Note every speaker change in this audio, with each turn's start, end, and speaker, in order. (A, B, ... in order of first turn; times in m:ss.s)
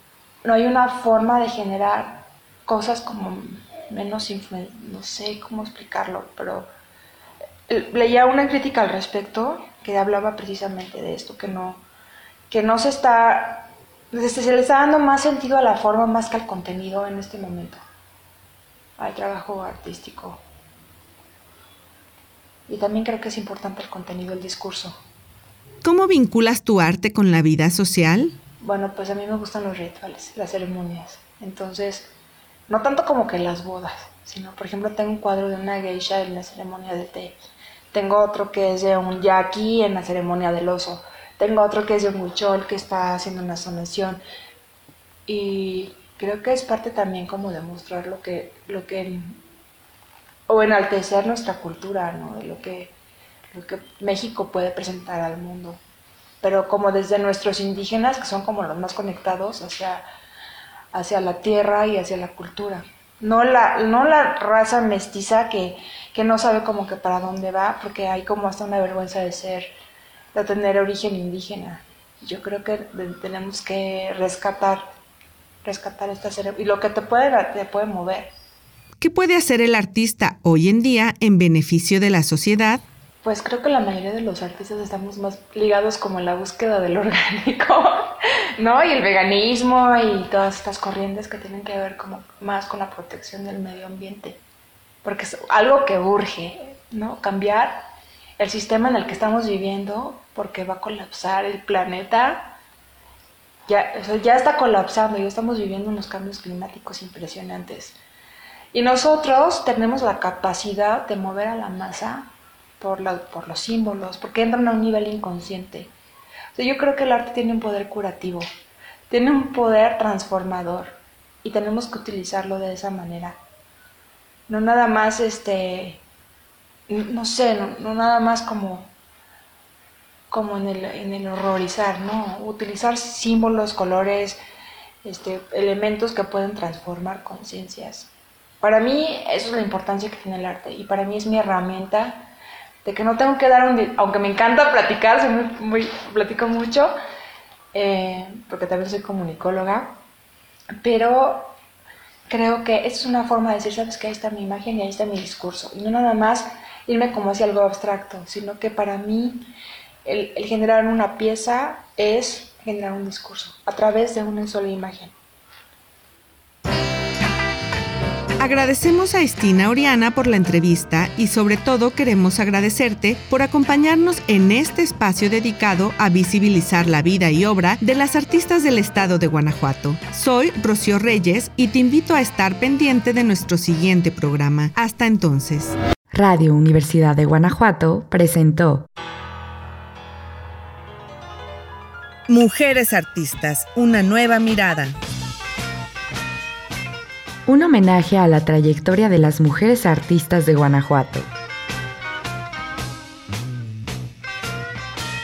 0:00.4-0:06.7 A
0:07.7-0:11.8 A
0:12.5-0:17.8 A
0:19.0-0:20.4 A
0:22.7-0:25.0 A
0:25.8-0:28.4 B
0:28.6-0:32.1 A
0:32.7-0:37.4 A
0:37.9-0:44.2 A
0:45.3-0:49.4 A
0:50.5-0:53.0 A
0:53.5-0:55.8 A
0:56.4-1:00.1 A
1:00.9-1:09.7 A
1:10.3-1:14.8 A
1:15.6-1:18.3 A
1:19.0-1:22.8 B
1:23.2-1:34.4 A
1:35.0-1:37.8 A
1:38.4-1:42.6 A
1:43.7-1:48.0 A
1:48.7-1:55.9 A
1:56.6-1:58.4 A
1:59.1-2:03.4 A
2:04.5-2:06.0 A
2:06.9-2:08.9 A
2:10.3-2:14.4 A
2:15.0-2:18.1 A
2:18.6-2:22.3 A
2:22.8-2:26.9 A
2:27.7-2:30.0 A
2:30.8-2:31.6 A
2:32.3-2:39.5 A
2:40.0-2:45.2 A
2:48.4-3:05.8 B
3:06.1-3:08.9 C
3:12.3-3:15.0 B
3:17.5-3:21.3 C